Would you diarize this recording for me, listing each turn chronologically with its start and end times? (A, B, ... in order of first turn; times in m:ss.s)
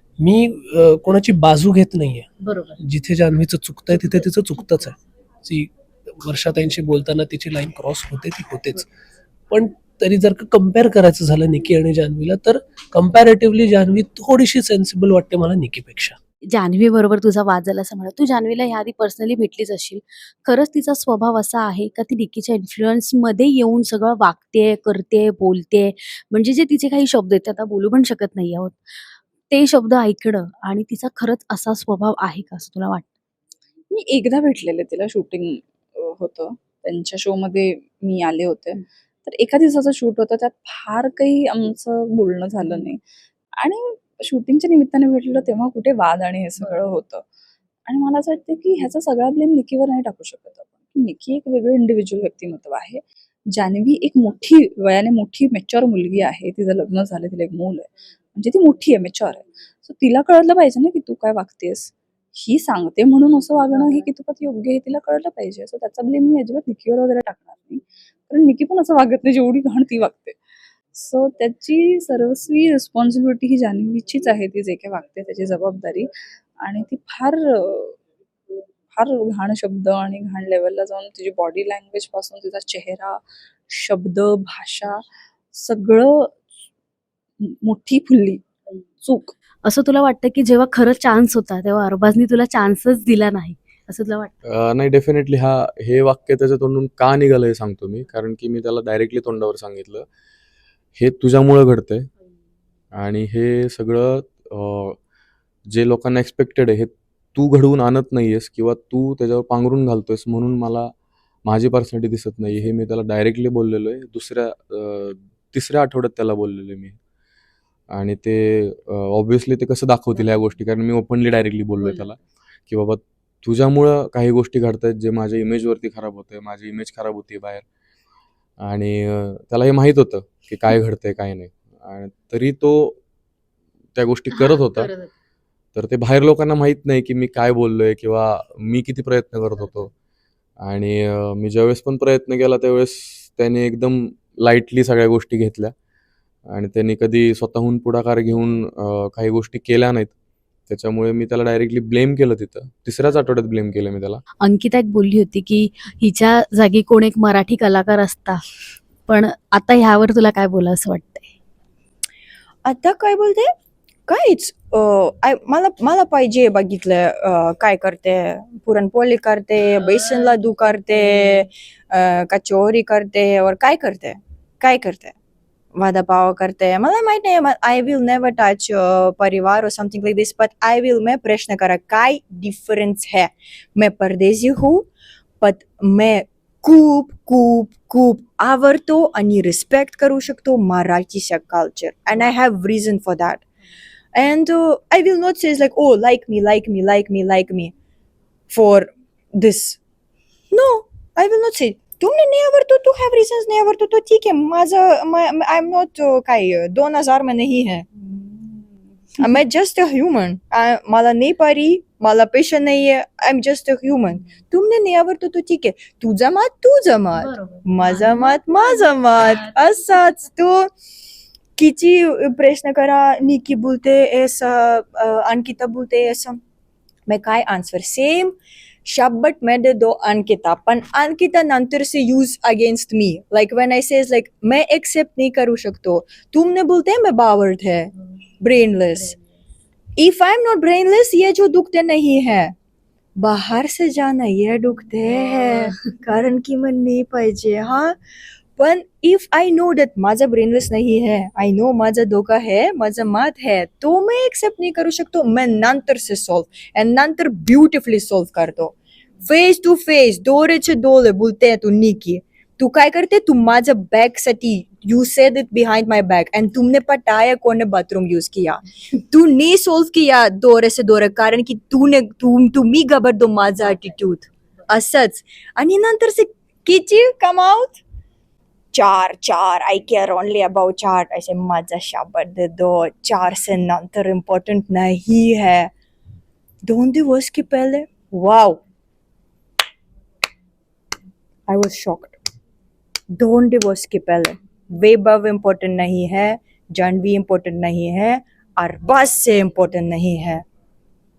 0:00.2-0:08.9 A
0:02.4-0:02.8 B
0:09.5-0:16.2 A
0:16.5-0:28.9 B
0:29.5-0:33.1 B
0:33.9-0:43.0 C
0:43.6-0:47.2 C
0:47.9-0:53.0 C
0:53.5-1:10.4 C
1:10.9-1:16.1 C
1:16.6-1:18.0 C
1:18.9-1:26.4 C
1:27.5-1:28.4 C
1:29.0-1:29.4 C
1:29.6-1:34.3 B
1:34.5-1:40.0 D
1:41.0-1:42.0 D
1:43.0-1:45.0 D
1:45.7-1:50.9 D
1:51.4-1:56.9 D
1:57.9-2:02.2 D
2:00.1-2:00.5 B
2:01.8-2:02.1 B
2:02.7-2:07.6 D
2:08.6-2:12.9 D
2:14.0-2:14.9 D
2:14.3-2:15.1 B
2:15.7-2:19.9 D
2:20.6-2:25.7 D
2:26.5-2:30.1 D
2:30.7-2:34.2 D
2:34.4-2:38.4 B
2:39.0-2:41.3 B
2:42.6-2:43.5 E
2:44.1-2:55.1 E
2:55.7-3:04.9 E
3:05.4-3:13.4 E
3:14.1-3:17.7 E
3:18.5-3:19.8 E
3:20.5-3:27.9 E
3:28.0-3:28.6 C
3:29.2-3:40.7 E
3:37.2-3:39.5 B
3:41.6-3:46.4 E
3:47.1-3:48.3 E
3:48.8-3:59.2 E
4:00.0-4:02.5 E
4:03.2-4:08.0 E
4:08.6-4:37.8 E
4:38.7-4:45.7 E
4:46.6-4:48.6 E
4:51.5-4:52.2 E
4:53.1-5:00.4 E